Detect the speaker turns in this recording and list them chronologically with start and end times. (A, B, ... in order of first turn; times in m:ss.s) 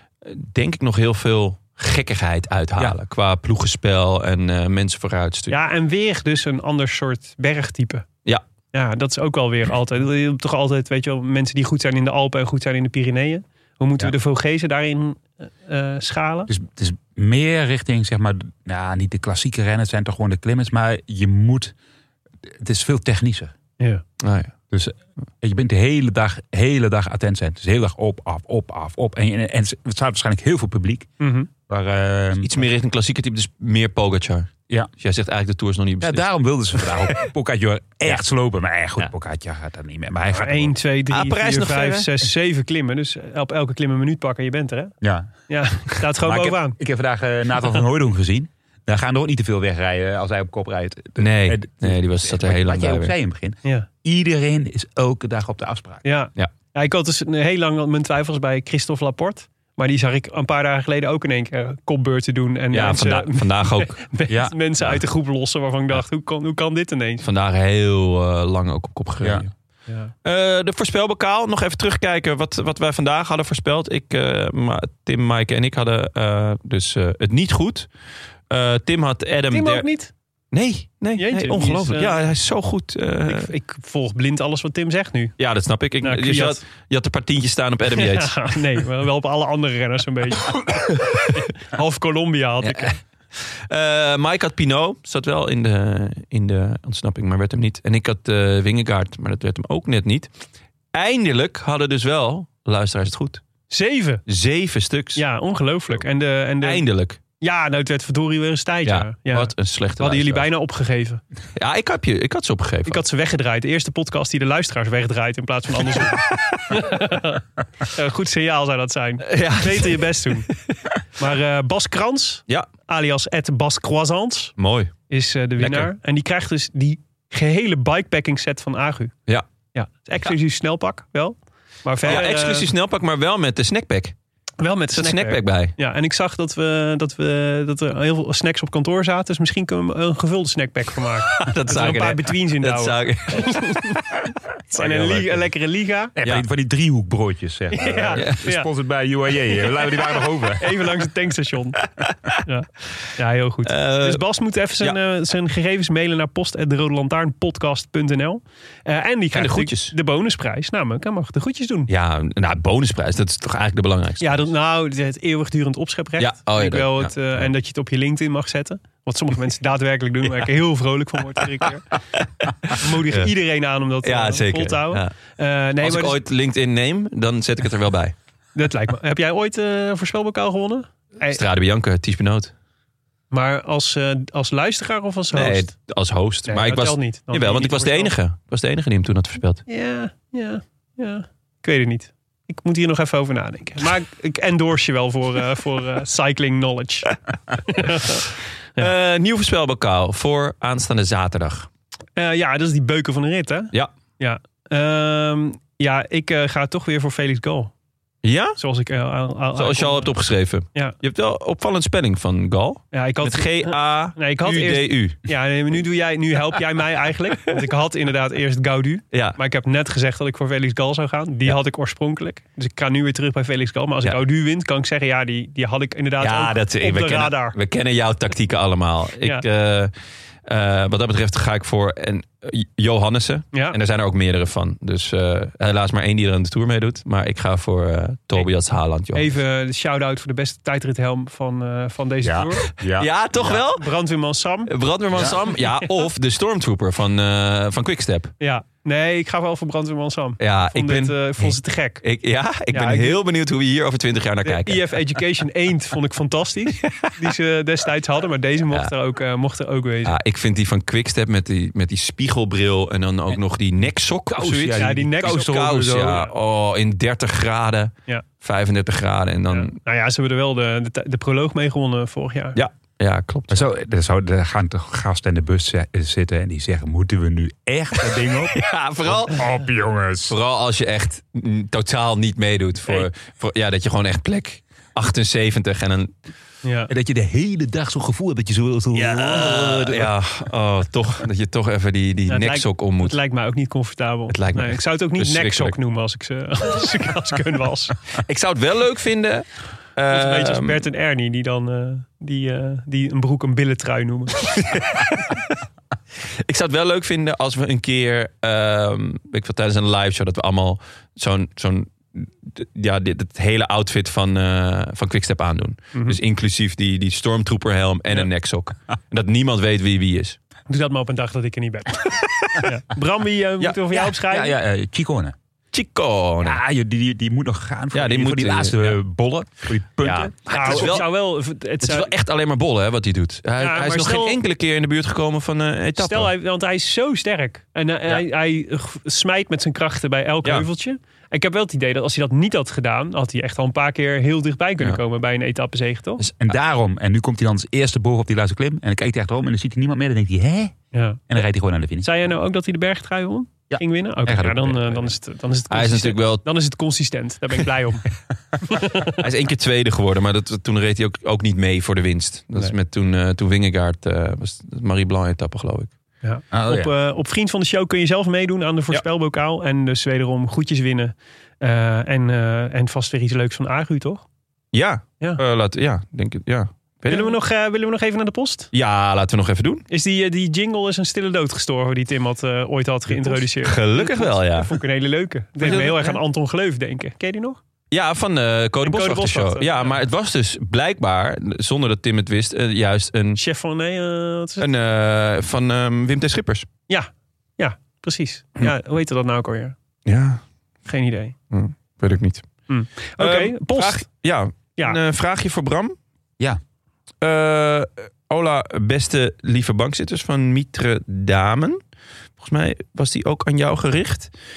0:00.2-0:05.5 A
0:05.5-0:08.0 B
0:08.7-0:16.5 B
0:16.5-0:21.7 C
0:22.6-0:23.5 C
0:24.2-0:24.5 A
0:24.7-0:31.1 C
0:31.2-0:31.5 B
0:31.7-0:32.5 C
0:32.4-0:37.2 A
0:36.0-0:40.8 C
0:40.3-0:45.0 B
0:41.1-0:42.3 A
0:45.0-0:45.3 C
0:45.5-0:46.8 B
0:46.2-0:56.0 C
0:51.2-0:53.1 A
0:56.0-1:07.2 B
1:02.7-1:04.0 A
1:04.3-1:04.5 C
1:07.2-1:09.5 A
1:10.2-1:17.9 A
1:18.5-1:19.9 A
1:19.5-1:20.1 B
1:20.5-1:23.5 A
1:21.2-1:22.2 B
1:23.2-1:25.3 B
1:25.4-1:28.5 A
1:26.0-1:26.6 B
1:27.9-1:33.0 B
1:30.5-1:31.3 A
1:32.6-1:40.3 A
1:40.9-1:43.4 A
1:43.7-1:44.2 B
1:44.3-1:45.2 A
1:45.2-1:46.8 B
1:46.6-1:47.2 A
1:47.4-1:51.2 B
1:48.8-1:50.4 A
1:51.6-1:53.0 A
1:52.8-2:00.5 B
1:56.0-1:56.6 A
1:59.2-2:00.0 A
2:01.2-2:04.5 B
2:04.6-2:04.9 A
2:05.1-2:09.1 B
2:05.6-2:05.9 A
2:09.7-2:12.7 B
2:12.0-2:14.1 A
2:14.6-2:26.1 B
2:14.9-2:15.7 A
2:21.3-2:23.8 A
2:24.8-2:25.4 A
2:26.2-2:30.8 C
2:27.7-2:28.7 B
2:28.2-2:28.4 A
2:30.6-2:31.8 B
2:32.0-2:32.3 A
2:32.4-2:41.9 B
2:33.6-2:34.2 A
2:39.3-2:39.9 A
2:41.9-2:44.5 A
2:44.2-2:51.9 B
2:46.2-2:47.5 A
2:52.4-2:53.3 A
2:52.7-2:56.2 B
2:54.0-2:55.1 A
2:55.8-2:58.1 A
2:58.5-3:01.4 B
3:01.3-3:02.5 A
3:03.3-3:05.7 B
3:05.3-3:09.6 A
3:06.5-3:08.1 B
3:09.7-3:18.9 B
3:18.8-3:21.7 A
3:22.2-3:27.7 B
3:28.2-3:28.6 A
3:28.6-3:30.1 B
3:29.6-3:35.2 A
3:32.9-3:47.6 B
3:39.1-3:39.4 A
3:46.2-3:49.9 A
3:50.4-3:59.3 A
3:59.1-4:02.7 B
4:02.2-4:03.6 C
4:02.9-4:03.9 A
4:03.6-4:04.7 B
4:04.7-4:08.3 A
4:05.1-4:05.4 C
4:05.5-4:05.8 B
4:08.4-4:12.0 B
4:10.4-4:14.9 A
4:12.7-4:13.2 B
4:14.4-4:20.1 B
4:16.8-4:17.1 A
4:20.0-4:29.7 A
4:24.3-4:26.3 C
4:24.7-4:25.5 B
4:29.5-4:32.6 B
4:32.5-4:33.7 A
4:33.5-4:40.3 C
4:38.5-4:39.5 A
4:40.3-4:46.1 A
4:46.6-4:46.9 B
4:46.9-4:50.1 C
4:48.9-4:53.2 A
4:52.3-4:58.0 B
4:54.3-4:55.8 A
4:58.2-5:00.8 A
5:00.1-5:04.6 B
5:04.5-5:05.6 A
5:06.4-5:20.4 A
5:20.7-5:24.6 B
5:24.2-5:25.3 C
5:25.7-5:26.6 A
5:26.4-5:31.0 C
5:27.9-5:29.0 A
5:30.0-5:31.1 A
5:30.5-5:32.1 B
5:31.8-5:36.3 A
5:33.6-5:34.4 B
5:36.0-5:46.2 B
5:46.4-5:50.7 C
5:50.9-5:51.2 B
5:51.3-5:52.2 C
5:52.0-5:58.1 B
5:53.7-5:55.1 C
5:55.7-5:56.5 A
5:58.6-5:59.2 B
5:59.2-6:05.9 A
6:06.2-6:14.2 B
6:06.5-6:06.9 C
6:14.7-6:17.4 A
6:17.1-6:18.7 B
6:18.7-6:19.8 A
6:19.9-6:27.6 B
6:23.1-6:24.8 A
6:25.6-6:26.2 A
6:27.9-6:33.4 A
6:28.8-6:30.0 B
6:33.4-6:34.7 B
6:34.6-6:36.7 A
6:36.9-6:39.7 B
6:40.0-6:40.4 A
6:40.8-6:41.3 B
6:41.5-6:45.9 A
6:42.7-6:44.0 B
6:47.2-6:51.8 A
6:52.4-6:54.3 A